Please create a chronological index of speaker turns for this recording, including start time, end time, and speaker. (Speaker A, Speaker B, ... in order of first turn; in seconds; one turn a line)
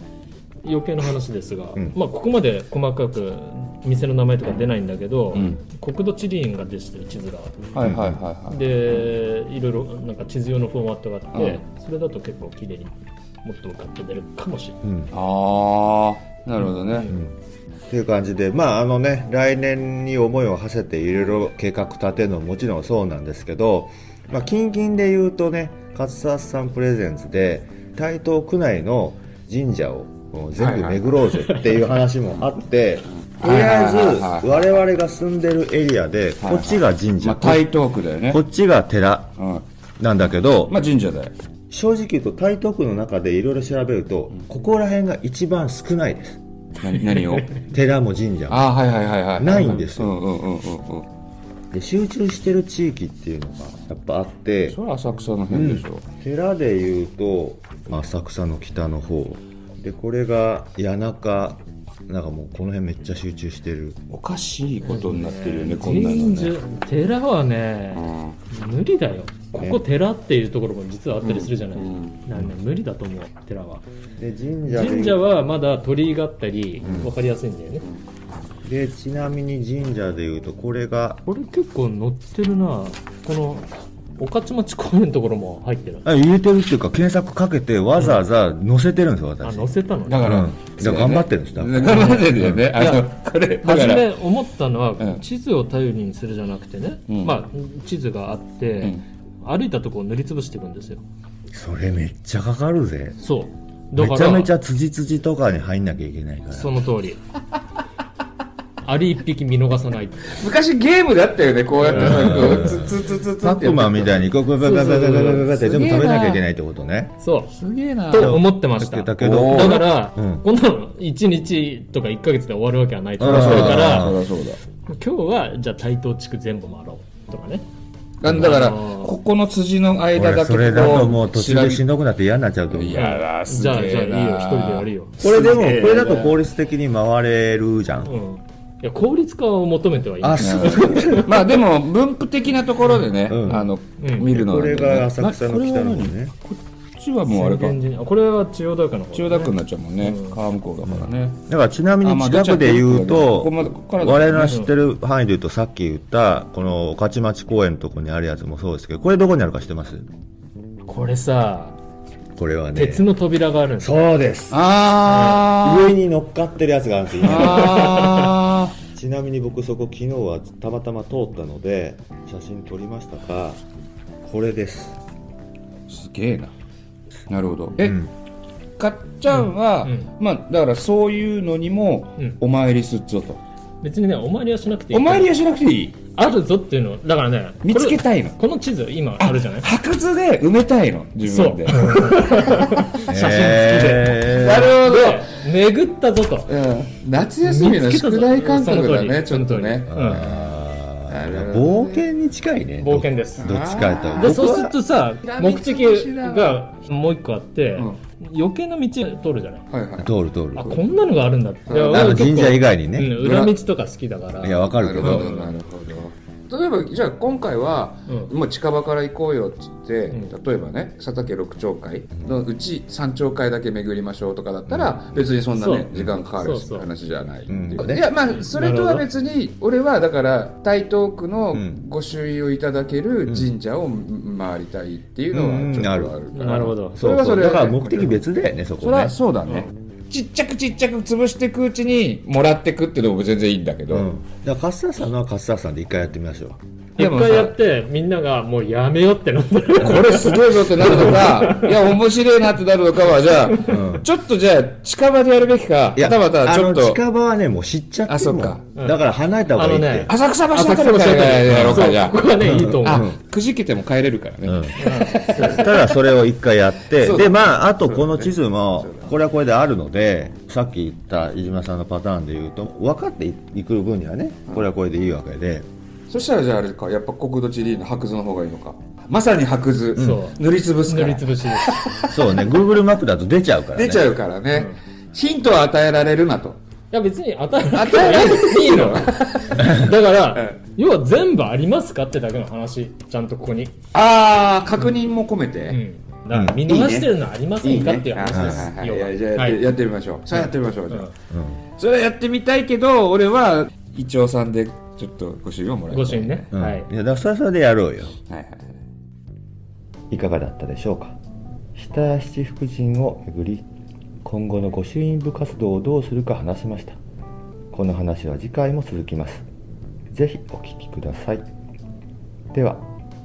Speaker A: 0.6-7.6
Speaker B: 5.3-5.6
Speaker B: 7.7-9.1
Speaker C: 7.8-8.2
Speaker A: 8.5-14.8
Speaker B: 11.3-11.6
Speaker C: 14.8-15.1
Speaker B: 15.1-17.1
Speaker A: 16.9-17.1
Speaker C: 17.0-17.4
Speaker C: 17.9-37.7
Speaker B: 30.6-31.1
Speaker B: 33.2-34.7
Speaker B: 36.4-38.4
Speaker C: 38.3-39.4
Speaker B: 39.4-39.6
Speaker C: 40.0-40.8
Speaker B: 40.7-41.3
Speaker C: 41.7-46.4
Speaker B: 46.8-47.5
Speaker C: 47.6-48.7
Speaker B: 48.5-51.1
Speaker C: 49.4-50.2
Speaker C: 51.7-54.8
Speaker B: 54.7-56.0
Speaker C: 55.5-64.0
Speaker B: 64.1-66.5
Speaker A: 64.8-73.8
Speaker B: 67.9-68.4
Speaker C: 69.6-69.8
Speaker B: 71.2-72.2
Speaker C: 74.2-75.3
Speaker A: 74.7-77.8
Speaker B: 76.8-77.1
Speaker C: 76.8-77.1
Speaker C: 78.7-81.2
Speaker A: 81.3-86.1
Speaker C: 86.0-92.6
Speaker A: 89.4-90.4
Speaker B: 90.1-94.2
Speaker A: 91.8-93.1
Speaker A: 93.6-101.0
Speaker B: 97.1-97.4
Speaker C: 101.5-103.2
Speaker A: 103.2-104.5
Speaker C: 104.0-106.8
Speaker A: 106.5-107.2
Speaker A: 108.8-110.3
Speaker B: 110.3-116.4
Speaker A: 111.8-112.8
Speaker C: 111.9-117.2
Speaker A: 117.2-117.5
Speaker B: 117.5-118.4
Speaker A: 118.1-124.1
Speaker C: 118.2-120.5
Speaker B: 119.2-119.9
Speaker C: 123.2-124.2
Speaker B: 123.2-124.6
Speaker A: 124.9-127.6
Speaker B: 128.2-131.8
Speaker A: 128.3-129.2
Speaker C: 130.2-133.1
Speaker B: 132.7-136.4
Speaker A: 132.9-135.1
Speaker C: 135.2-138.1
Speaker A: 138.0-141.3
Speaker C: 140.2-141.4
Speaker B: 140.4-147.8
Speaker C: 143.3-143.7
Speaker A: 143.5-144.3
Speaker C: 144.3-146.3
Speaker A: 147.3-150.4
Speaker B: 149.1-151.4
Speaker C: 150.8-160.1
Speaker B: 152.0-154.6
Speaker A: 154.5-154.7
Speaker A: 160.9-161.8
Speaker C: 162.4-163.1
Speaker A: 162.8-164.0
Speaker C: 163.8-164.6
Speaker B: 164.5-165.9
Speaker A: 165.1-165.4
Speaker C: 165.6-168.3
Speaker B: 167.2-168.7
Speaker A: 167.4-168.3
Speaker C: 168.9-173.6
Speaker C: 174.2-175.0
Speaker B: 175.9-176.5
Speaker B: 177.3-178.0
Speaker C: 177.8-178.1
Speaker B: 178.8-183.4
Speaker A: 179.3-180.1
Speaker A: 183.8-185.3
Speaker B: 184.9-186.0
Speaker A: 186.2-189.7
Speaker B: 187.6-188.4
Speaker B: 189.2-192.6
Speaker A: 191.2-196.5
Speaker C: 193.1-194.8
Speaker B: 194.2-195.4
Speaker B: 196.5-200.5
Speaker A: 197.4-200.2
Speaker C: 199.9-204.8
Speaker B: 201.1-202.1
Speaker A: 202.8-203.5
Speaker B: 203.4-204.5
Speaker A: 204.2-209.7
Speaker B: 205.2-206.7
Speaker B: 209.7-210.9
Speaker C: 210.0-210.8
Speaker A: 210.6-215.5
Speaker B: 211.7-212.2
Speaker C: 211.9-213.6
Speaker C: 214.4-215.3
Speaker B: 214.8-238.2
Speaker A: 218.1-218.3
Speaker C: 224.7-225.2
Speaker A: 225.6-226.9
Speaker C: 227.5-228.1
Speaker A: 228.3-229.1
Speaker C: 231.5-231.8
Speaker C: 235.3-239.2
Speaker A: 236.3-237.0
Speaker B: 238.8-244.1
Speaker C: 243.9-246.6
Speaker A: 247.0-251.8
Speaker B: 247.0-247.6
Speaker B: 249.8-257.0
Speaker C: 253.5-254.1
Speaker C: 255.9-260.1
Speaker B: 258.1-258.6
Speaker A: 258.8-259.0
Speaker A: 259.5-263.1
Speaker B: 260.1-265.9
Speaker C: 261.5-263.2
Speaker C: 264.4-264.8
Speaker A: 264.8-265.9
Speaker C: 265.4-275.7
Speaker B: 266.9-269.1
Speaker B: 276.1-282.5
Speaker A: 280.0-281.8
Speaker C: 280.0-280.2
Speaker C: 282.1-284.1
Speaker B: 283.7-286.6
Speaker A: 284.5-284.8
Speaker A: 286.9-293.8
Speaker B: 287.7-290.6
Speaker C: 289.6-289.9
Speaker B: 293.9-295.8
Speaker A: 295.7-299.6
Speaker C: 296.3-296.6
Speaker B: 296.7-301.1
Speaker C: 298.3-298.7
Speaker A: 300.3-301.1
Speaker C: 301.3-301.6
Speaker B: 301.8-306.5
Speaker A: 305.9-306.9
Speaker C: 306.5-308.2
Speaker B: 308.3-308.7
Speaker C: 310.1-311.2
Speaker C: 311.8-313.7
Speaker C: 314.2-317.0
Speaker C: 317.7-319.4
Speaker C: 320.1-321.4
Speaker C: 322.5-322.9